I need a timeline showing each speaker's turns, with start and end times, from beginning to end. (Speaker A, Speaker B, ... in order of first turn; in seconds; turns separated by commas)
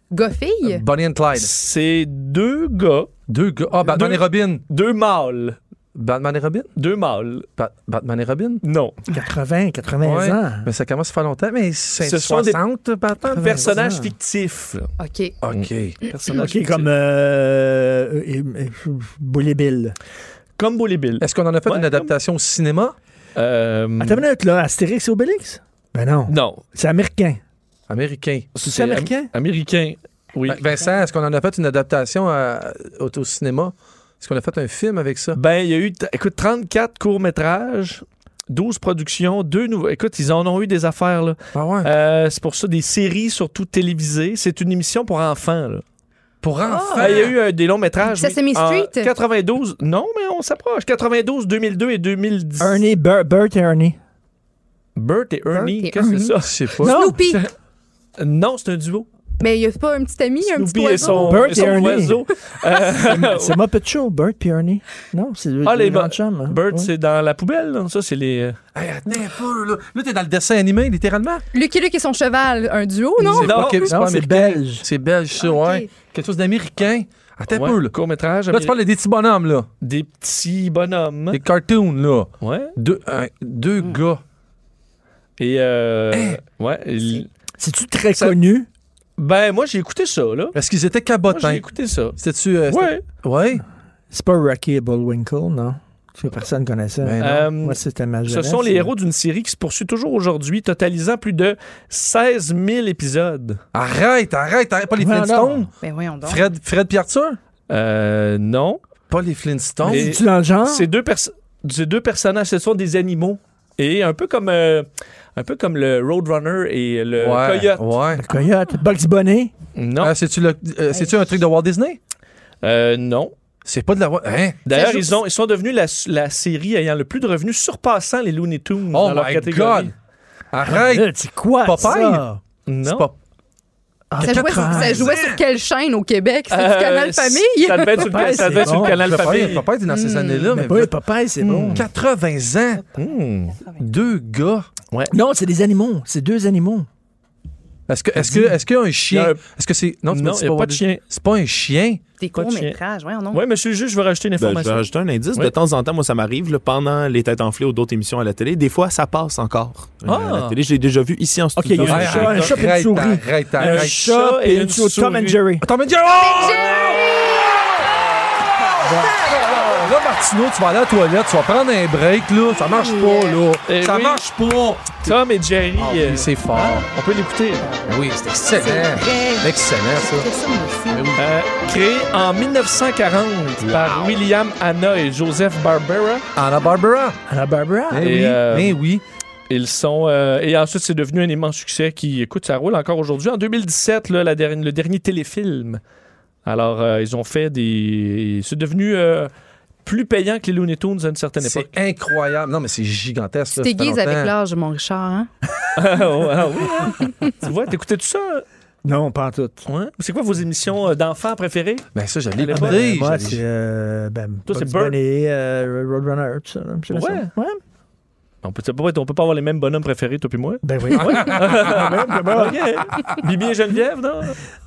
Speaker A: 0.1-0.8, Speaker B: 0.7-1.5, Speaker C: 1.4-3.1, Speaker B: 3.3-4.6, Speaker C: 3.8-5.6, Speaker B: 6.0-6.7, Speaker C: 6.8-7.5, Speaker B: 7.6-8.6, Speaker C: 8.6-9.0, Speaker D: 9.1-10.7, Speaker B: 10.0-13.7, Speaker C: 12.0-12.6, Speaker C: 13.3-14.9, Speaker D: 13.4-14.1, Speaker A: 15.0-15.4, Speaker B: 15.4-16.0, Speaker C: 15.5-16.9, Speaker D: 16.3-20.0, Speaker C: 20.6-22.1, Speaker B: 21.2-22.9, Speaker C: 23.4-24.2, Speaker D: 24.0-27.4, Speaker C: 26.3-26.6, Speaker B: 27.9-28.5, Speaker C: 28.6-30.6, Speaker D: 28.6-29.3, Speaker B: 30.5-35.4, Speaker C: 35.3-45.8, Speaker B: 41.5-41.9, Speaker B: 46.4-47.4, Speaker A: 46.7-47.3, Speaker C: 46.9-52.8, Speaker A: 48.0-49.1, Speaker D: 52.6-54.0, Speaker C: 55.0-57.5, Speaker A: 55.5-57.5, Speaker B: 56.4-57.0, Speaker D: 56.8-57.2, Speaker C: 58.2-59.1, Speaker A: 59.4-62.1, Speaker C: 60.5-63.6, Speaker D: 61.0-62.2, Speaker D: 62.9-66.9, Speaker C: 65.6-68.6, Speaker B: 68.8-71.4, Speaker A: 71.5-73.6, Speaker B: 73.2-78.0, Speaker C: 73.4-73.9, Speaker D: 73.6-74.9, Speaker A: 75.4-75.9, Speaker C: 77.5-78.8, Speaker B: 78.5-79.7, Speaker C: 79.8-81.4, Speaker B: 81.3-84.2, Speaker C: 82.4-82.8, Speaker C: 85.4-87.3, Speaker B: 86.1-86.4, Speaker D: 87.6-88.7, Speaker C: 89.2-90.6, Speaker B: 90.5-91.7, Speaker C: 91.3-93.0, Speaker B: 92.2-93.6, Speaker D: 94.1-98.9, Speaker B: 97.0-97.5, Speaker C: 97.2-103.6, Speaker B: 103.7-105.7, Speaker D: 105.0-105.7, Speaker A: 105.8-106.5, Speaker B: 106.2-107.4, Speaker C: 107.7-108.8, Speaker B: 109.1-110.1, Speaker D: 109.8-110.9, Speaker C: 109.9-117.9, Speaker B: 117.2-118.2, Speaker D: 118.1-119.5, Speaker C: 119.8-120.1, Speaker B: 120.0-122.0, Speaker C: 122.6-123.3, Speaker B: 123.7-124.6, Speaker C: 124.7-129.9, Speaker A: 124.7-125.2, Speaker B: 128.9-129.9, Speaker B: 130.5-132.2, Speaker D: 130.6-132.4, Speaker C: 132.7-133.1, Speaker B: 132.8-133.2, Speaker D: 134.1-135.1, Speaker B: 134.2-135.4, Speaker A: 134.2-138.5, Speaker C: 136.5-139.7, Speaker D: 138.0-139.5, Speaker B: 138.8-142.9, Speaker A: 139.9-140.5, Speaker D: 140.5-141.9, Speaker C: 142.9-143.6, Speaker B: 143.8-144.7, Speaker D: 145.1-146.9, Speaker B: 147.9-152.0, Speaker D: 148.2-148.5, Speaker C: 149.1-149.4, Speaker C: 150.1-151.1, Speaker A: 152.2-153.4, Speaker C: 152.3-152.8, Speaker C: 153.3-155.5, Speaker E: 154.4-162.4, Speaker C: 160.1-160.6, Speaker D: 161.6-165.7, Speaker C: 161.8-162.6, Speaker B: 161.8-164.0, Speaker C: 163.6-165.4, Speaker B: 165.6-167.1, Speaker A: 166.2-167.4, Speaker D: 168.8-169.1, Speaker B: 168.9-175.2, Speaker A: 172.9-173.4, Speaker C: 173.7-174.3, Speaker C: 175.0-177.8, Speaker B: 175.8-176.8, Speaker B: 177.9-180.3, Speaker A: 178.5-179.5, Speaker A: 180.0-181.1, Speaker B: 180.9-181.3, Speaker C: 181.2-186.2, Speaker B: 183.6-184.2, Speaker B: 186.4-187.2, Speaker D: 187.3-188.1, Speaker B: 187.9-189.0, Speaker C: 188.0-188.8, Speaker C: 189.5-195.8, Speaker C: 196.4-199.3, Speaker C: 199.8-201.7, Speaker B: 201.4-204.3, Speaker A: 203.6-205.3, Speaker C: 205.8-208.4, Speaker D: 208.8-209.7, Speaker C: 209.7-211.9, Speaker B: 211.9-213.4, Speaker C: 212.4-212.8, Speaker D: 212.5-217.6, Speaker C: 214.5-215.0, Speaker C: 216.9-217.3, Speaker C: 218.4-224.4, Speaker D: 220.6-222.8, Speaker B: 221.0-221.7